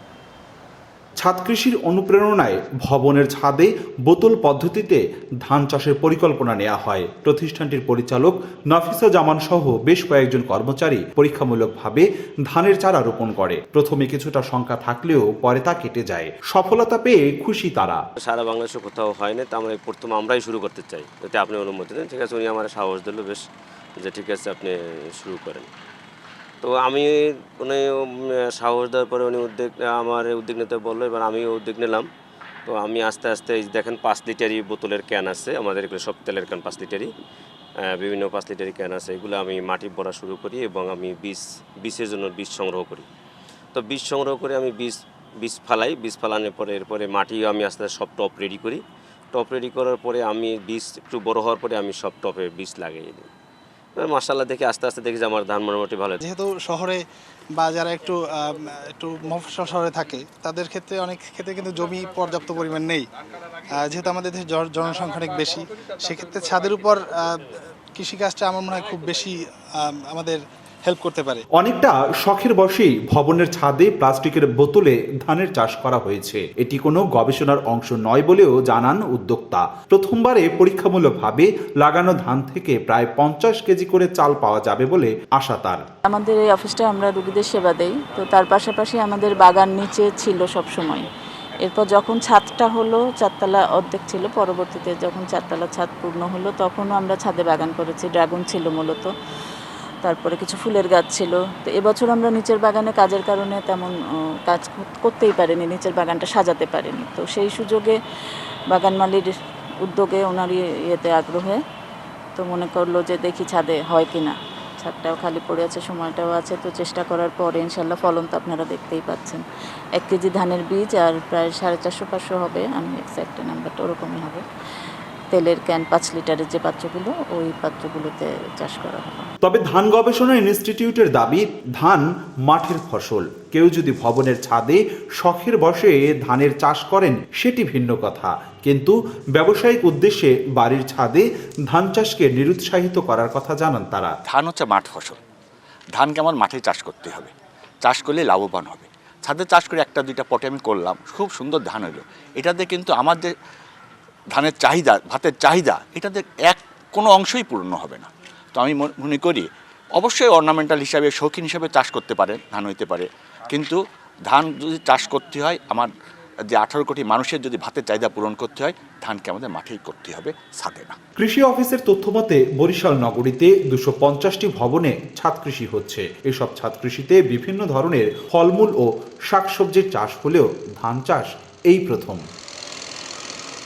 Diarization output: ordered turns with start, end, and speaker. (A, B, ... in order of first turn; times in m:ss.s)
0:01.2-0:18.0 A
0:18.2-0:23.4 B
0:24.0-0:25.7 B
0:26.6-0:32.1 B
0:32.6-0:37.1 B
0:37.9-0:43.0 B
0:43.7-0:48.8 B
0:49.3-0:53.3 B
0:54.0-0:56.2 B
0:56.2-0:57.0 C
0:57.5-1:03.0 C
1:03.7-1:11.4 C
1:11.6-1:25.8 A
1:26.0-1:31.0 D
1:31.6-1:39.1 D
1:40.0-1:48.0 D
1:48.7-1:51.6 D
1:52.4-1:59.4 D
2:00.0-2:04.4 D
2:05.3-2:09.3 D
2:09.4-2:24.1 A
2:24.3-2:25.2 E
2:26.0-2:27.3 E
2:27.8-2:33.3 E
2:34.3-2:45.9 E
2:46.5-2:51.0 E
2:51.2-3:02.2 A